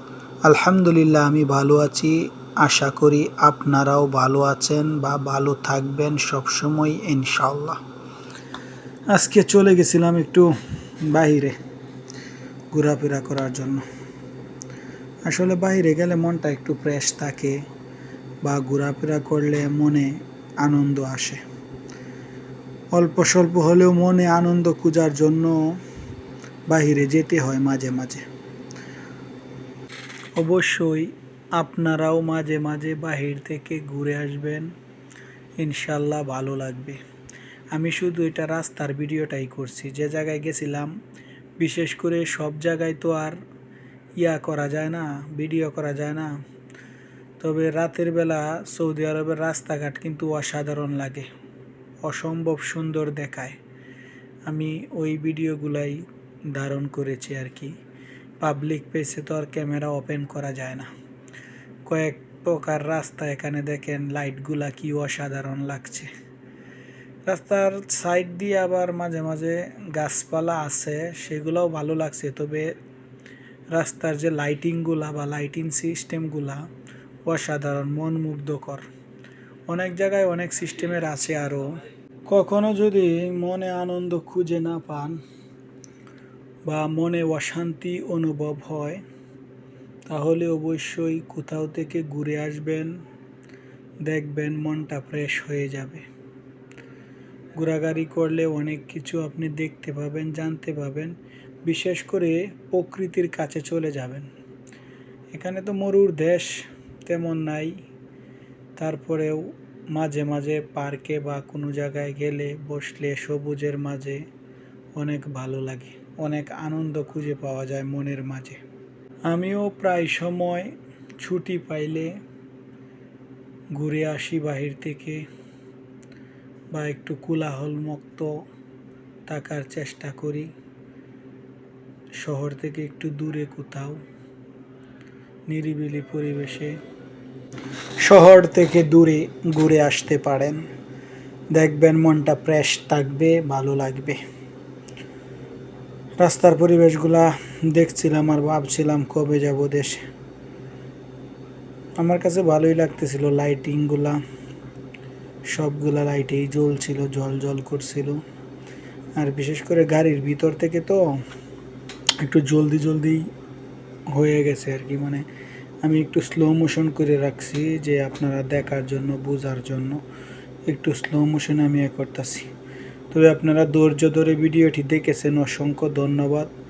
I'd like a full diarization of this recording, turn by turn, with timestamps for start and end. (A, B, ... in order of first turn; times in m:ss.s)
0:00.4-0:07.8 A
0:09.1-0:10.5 A
0:11.0-0:11.6 A
0:12.7-0:13.8 A
0:15.2-0:17.6 A
0:18.4-0:21.4 A
0:22.9-0:25.7 A
0:26.7-0:28.2 A
0:30.4-0:34.7 A
0:35.6-0:37.0 A
0:37.7-0:40.9 A
0:41.6-0:43.4 A
0:44.2-0:46.3 A
0:47.4-0:51.3 A
0:52.0-0:53.6 A
0:54.4-0:57.8 A
0:58.4-1:00.9 A
1:01.8-1:06.1 A
1:07.2-1:12.7 A
1:13.7-1:16.6 A
1:17.2-1:18.8 A
1:19.7-1:25.2 A
1:26.6-1:29.0 A
1:30.1-1:33.0 A
1:34.0-1:36.0 A
1:37.6-1:44.3 A
1:45.3-1:47.8 A
1:48.8-1:54.2 A
1:55.0-1:58.6 A
1:59.3-2:02.1 A
2:03.8-2:05.2 A
2:06.7-2:08.3 A
2:09.3-2:10.5 A
2:12.2-2:14.0 A
2:15.5-2:16.8 A
2:18.0-2:20.6 A
2:21.5-2:24.2 A
2:26.2-2:30.0 A
2:32.0-2:34.2 A
2:35.5-2:38.2 A
2:39.2-2:41.0 A
2:42.2-2:43.3 A
2:44.1-2:45.2 A
2:45.8-2:50.0 A
2:50.6-2:52.5 A
2:53.1-2:56.5 A